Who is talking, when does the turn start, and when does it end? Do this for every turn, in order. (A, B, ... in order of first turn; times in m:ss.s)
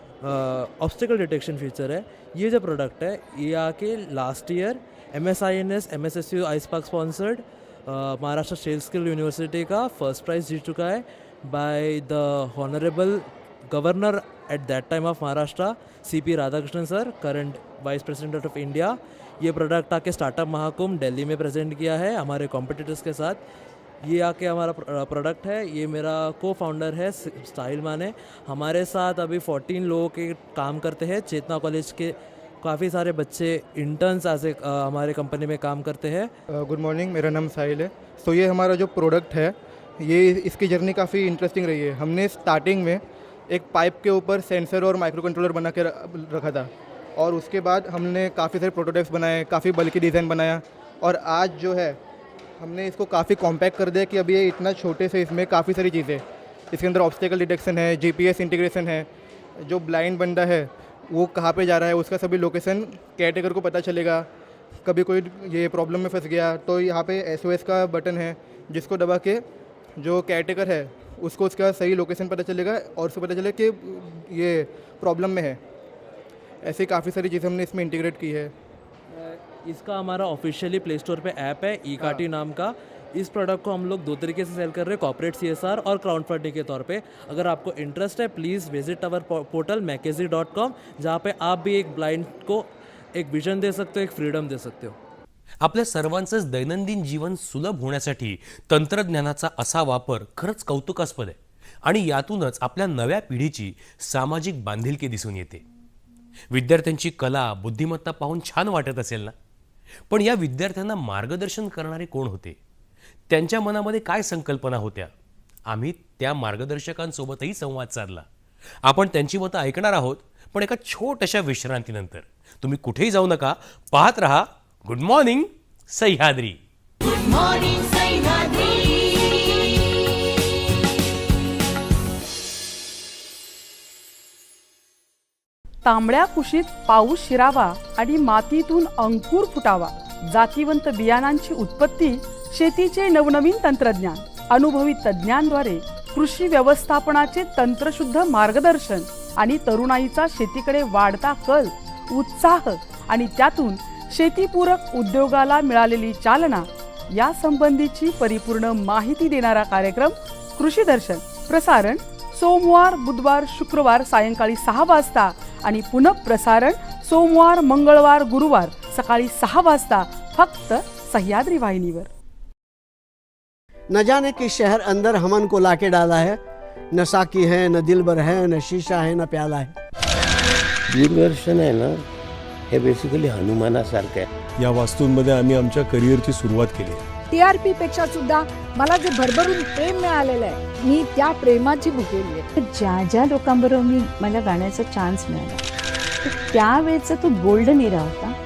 0:00.2-0:23.4 A
0:24.0-0:36.3 A
0:36.6-0:52.0 B
0:52.6-0:59.1 B
0:59.6-1:04.3 B
1:04.8-1:09.4 B
1:10.0-1:15.6 B
1:16.6-1:18.5 B
1:19.1-1:35.0 A
1:35.6-1:45.6 C
1:46.5-1:49.3 C
1:50.1-1:52.6 C
1:53.3-1:55.1 C
1:55.7-1:58.3 C
1:58.8-2:06.6 C
2:15.8-2:52.1 D
2:53.9-2:56.4 E
2:56.9-2:59.7 E
3:00.9-3:02.1 F
3:02.7-3:04.3 F
3:04.6-3:07.0 G
3:07.3-3:12.4 H
3:12.6-3:15.6 I
3:16.2-3:18.4 I